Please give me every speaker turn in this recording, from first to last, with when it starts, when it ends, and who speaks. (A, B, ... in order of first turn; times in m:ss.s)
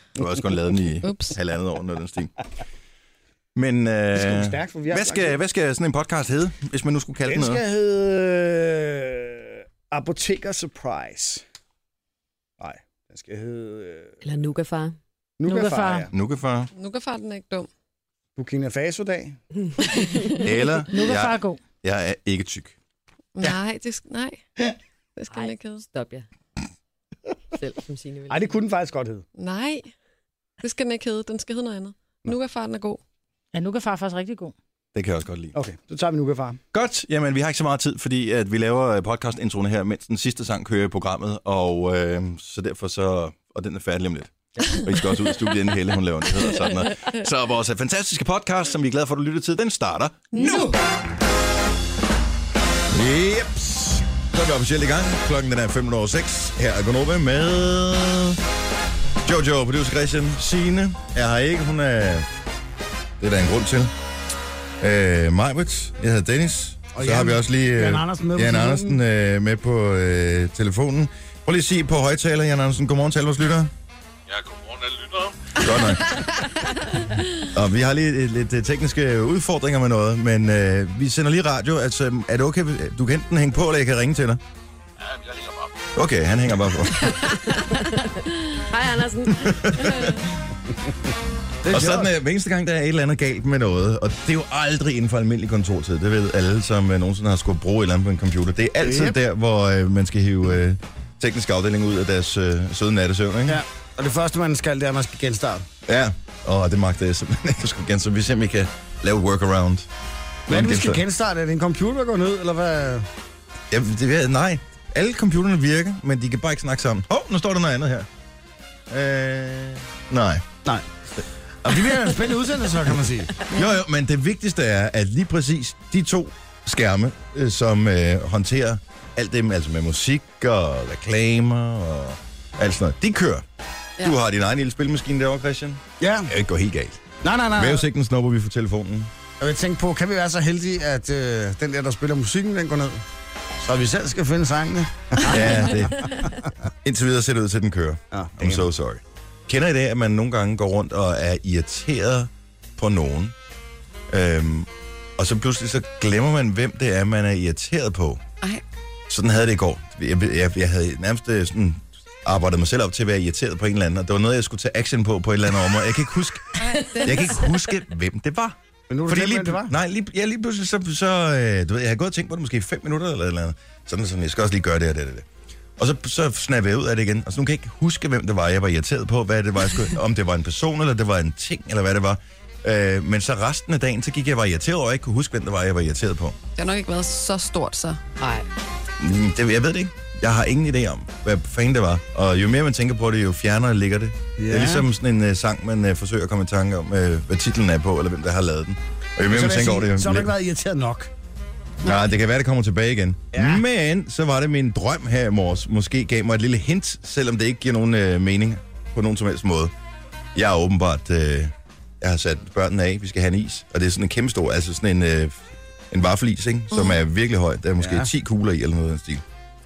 0:00.2-0:02.3 A
0:01.0-0:01.4 B
0:03.6-0:07.6 A
0:04.2-0:05.4 C
0:07.3-0:11.4 C
0:12.6-0:14.2 C
0:14.2-0:15.0 D
0:15.4-0:16.1 C
0:15.4-0:16.1 E
0:16.1-0:16.7 A
0:16.8-0:17.7 B
0:18.4-0:19.4 C
0:20.4-0:22.8 A
0:20.9-0:21.6 E
0:23.4-0:24.4 B
0:25.2-0:25.8 B
0:25.3-0:26.3 D
0:27.6-0:28.4 D
0:28.3-0:29.2 C
0:29.4-0:29.9 B
0:30.6-0:33.0 B
0:33.5-0:34.5 E
0:34.9-0:35.6 A
0:35.5-0:36.6 C
0:36.7-0:50.5 A
0:50.4-0:50.7 D
0:52.9-0:58.4 A
0:59.2-1:02.3 A
1:03.2-1:03.9 A
1:04.8-1:13.7 A
1:07.0-1:09.0 C
1:14.3-1:15.5 F
1:15.6-1:16.2 A
1:17.5-1:24.4 A
1:25.0-1:25.7 F
1:26.0-1:27.3 A
1:27.1-1:30.2 D
1:29.4-1:30.2 A
1:31.6-1:32.1 C
1:31.7-1:43.6 A
1:38.8-1:39.2 C
1:43.5-1:45.7 C
1:45.9-1:49.9 A
1:50.5-1:53.1 C
1:50.5-1:51.0 A
1:53.7-1:58.1 A
1:58.9-2:00.4 A
2:01.6-2:13.4 A
2:01.6-2:03.5 C
2:14.0-2:19.1 A
2:16.0-2:16.3 C
2:17.2-2:17.9 C
2:19.4-2:23.0 C
2:23.6-2:26.5 C
2:25.2-2:26.2 A
2:26.8-2:33.4 A
2:28.1-2:28.6 C
2:34.1-2:38.2 A
2:39.1-2:55.3 A
2:46.6-2:47.5 B
2:48.9-2:49.7 C
2:55.8-3:06.4 A
3:06.6-3:08.0 B
3:08.2-3:08.4 D
3:09.0-3:20.3 A
3:14.4-3:14.8 C
3:19.3-3:21.1 C
3:21.8-3:29.7 A
3:23.3-3:23.6 C
3:30.4-3:35.4 A
3:35.9-3:39.2 A
3:36.7-3:37.0 B
3:37.8-3:38.1 C